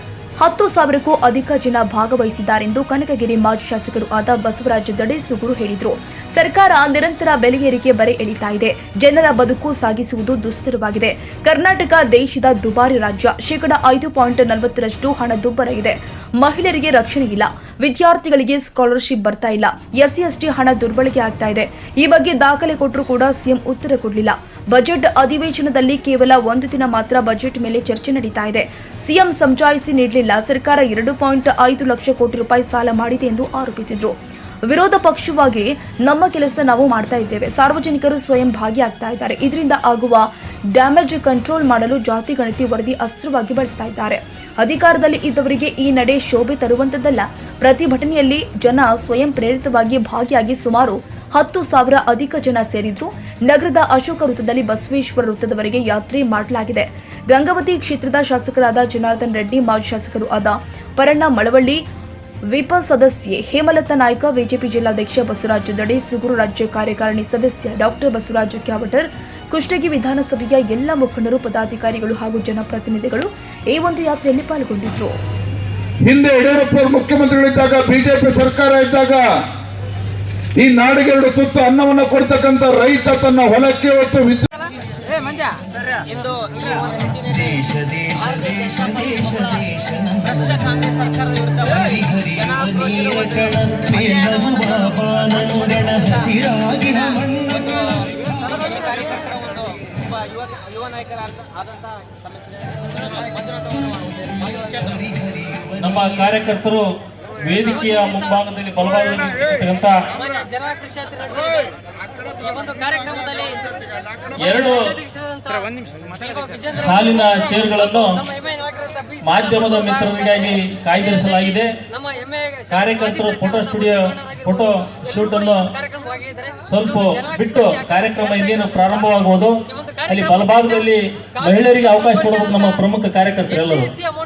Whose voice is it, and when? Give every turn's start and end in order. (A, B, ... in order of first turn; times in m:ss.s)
0:00.4-0:34.2 A
0:34.7-1:01.8 A
1:02.5-1:15.2 A
1:16.0-1:19.2 B
1:20.6-1:24.5 B
1:27.1-1:39.4 C
1:43.6-1:46.3 C
1:45.8-1:46.9 D
1:47.4-1:50.0 D
1:50.4-1:51.7 E
1:52.4-1:53.7 E
1:54.4-1:55.0 D
1:56.7-1:58.3 D
1:59.2-2:01.7 D
2:02.7-2:05.7 D
2:06.7-2:14.0 D